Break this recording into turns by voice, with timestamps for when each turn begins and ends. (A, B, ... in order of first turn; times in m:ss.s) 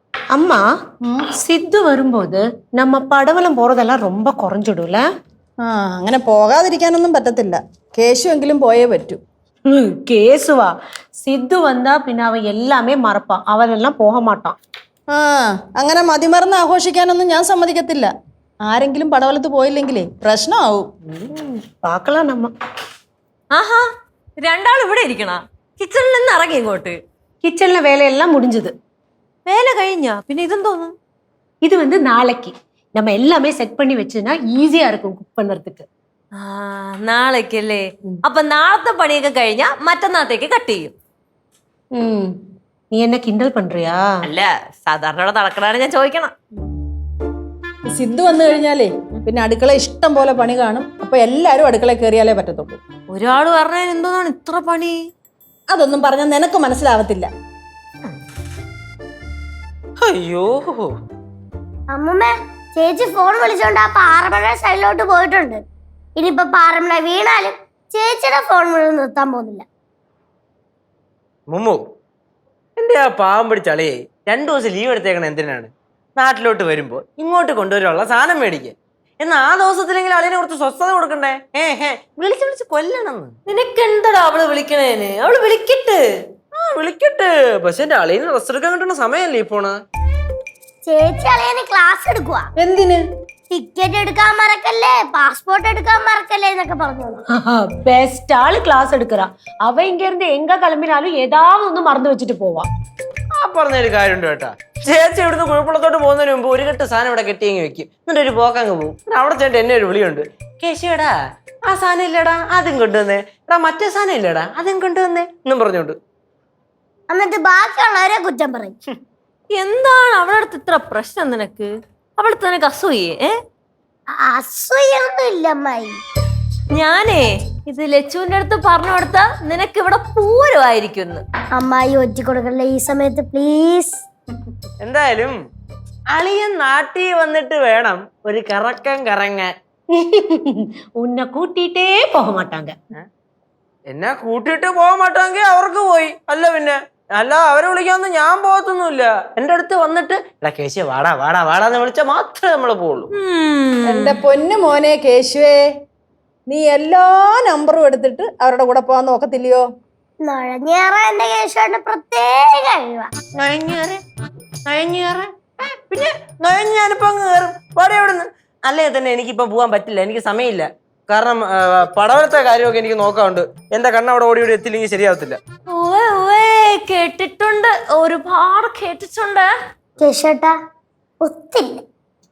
0:00.4-0:00.6 A
0:01.3-0:05.0 A
0:05.6-0:09.2 B
0:09.7-0:14.6 A
0:15.1-0:18.1 B
0:18.7-0:20.9 B
0:21.1-0:22.5 A
0:23.5-0:23.8 C
0:24.4-0:27.0 C
0:27.4-0:28.7 A
0:29.5-0:30.9 C
0:31.6-0:35.9 A
0:36.4-0:40.9 C
0:41.9-0:42.3 A
0:42.9-0:44.2 A
0:44.2-0:46.3 C
0:47.9-0:52.8 B
0:53.1-0:55.0 C
0:55.7-0:57.3 B
1:00.0-1:00.9 D
1:01.9-1:05.6 E
1:06.2-1:09.7 E
1:11.5-1:11.8 D
1:12.8-1:23.4 D
1:23.5-1:26.0 C
1:26.5-1:29.8 D
1:30.9-1:32.5 E
1:32.6-1:33.0 B
1:33.5-1:37.2 E
1:37.3-1:42.7 A
1:43.4-1:51.1 D
1:51.7-1:56.0 D
1:57.1-1:58.8 E
1:59.5-2:03.3 C
2:04.3-2:06.0 E
2:06.8-2:11.2 C
2:11.6-2:14.0 E
2:14.8-2:15.4 D
2:16.1-2:19.5 D
2:19.9-2:22.8 A
2:23.9-2:33.1 D
2:33.1-2:34.2 C
2:33.8-2:35.6 B
2:36.5-2:39.6 B
2:40.2-2:43.1 E
2:43.4-2:44.0 D
2:44.7-2:55.4 D
2:55.7-2:59.5 C
3:00.0-3:00.5 E
3:01.2-3:01.8 E